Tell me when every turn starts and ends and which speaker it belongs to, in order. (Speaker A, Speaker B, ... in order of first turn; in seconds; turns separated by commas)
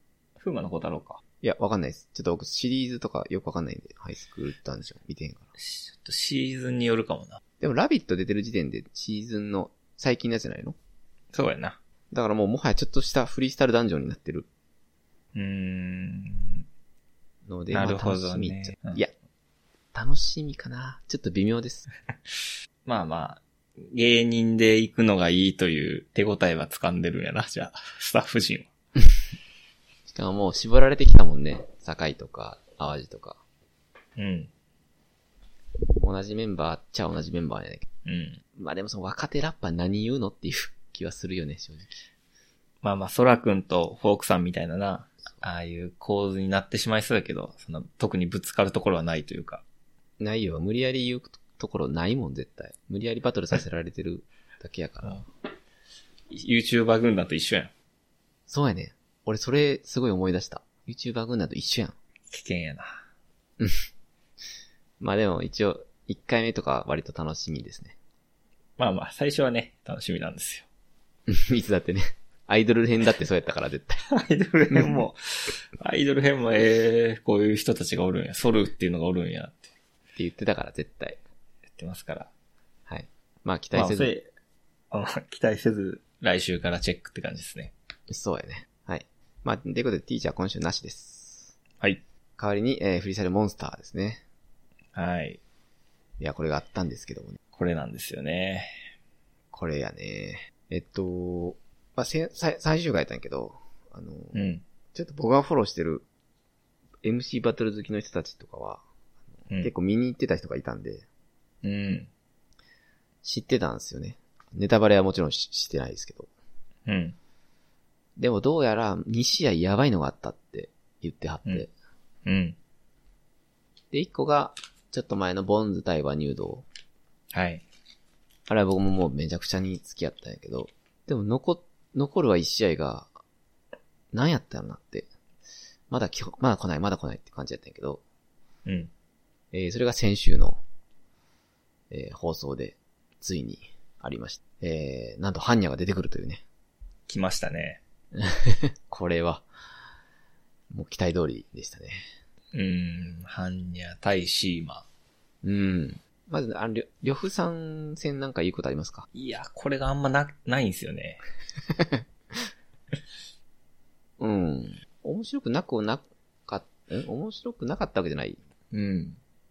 Speaker A: 0.4-1.2, Speaker B: 1.4-5.5, Speaker A: 5.6-7.4, Speaker B: 7.6-10.8, Speaker A: 11.3-11.8, Speaker B: 12.1-14.5, Speaker A: 15.3-16.6, Speaker B: 17.4-19.1, Speaker A: 17.7-19.0, Speaker B: 19.9-21.9, Speaker A: 22.9-28.7, Speaker B: 30.1-33.4, Speaker A: 34.1-34.5, Speaker B: 36.0-37.9, Speaker A: 38.0-38.4, Speaker B: 38.5-42.0, Speaker A: 42.8-49.6, Speaker B: 50.2-55.2, Speaker A: 56.3-57.7, Speaker B: 58.5-61.9, Speaker A: 62.3-63.0, Speaker B: 63.6-63.9, Speaker B: 65.0-68.0, Speaker A: 68.8-70.7, Speaker B: 71.3-74.0, Speaker A: 74.1-79.7, Speaker B: 74.7-75.0, Speaker B: 80.2-81.2, Speaker A: 81.7-82.3, Speaker B: 82.9-84.1, Speaker A: 83.7-84.3, Speaker A: 84.9-87.7, Speaker B: 88.1-91.5, Speaker B: 92.4-94.2, Speaker A: 94.9-95.4, Speaker B: 96.2-97.4, Speaker A: 97.5-98.8, Speaker B: 99.5-106.0, Speaker A: 104.3-104.6, Speaker B: 107.0-108.8, Speaker B: 109.5-111.0, Speaker A: 111.6-112.1, Speaker B: 113.2-116.3, Speaker A: 116.8-117.2, Speaker B: 118.2-121.7, Speaker A: 122.2-122.6, Speaker B: 123.9-126.6, Speaker A: 127.3-127.6, Speaker B: 128.5-133.1, Speaker B: 134.1-135.1, Speaker B: 135.9-138.0, Speaker A: 138.6-138.9, Speaker B: 139.5-140.6, Speaker B: 141.9-146.4, Speaker A: 147.1-147.8, Speaker B: 148.1-149.4, Speaker B: 150.7-152.0, Speaker A: 152.5-154.8, Speaker B: 155.4-159.1, Speaker A: 159.1-161.2, Speaker B: 164.2-168.4, Speaker A: 168.7-169.2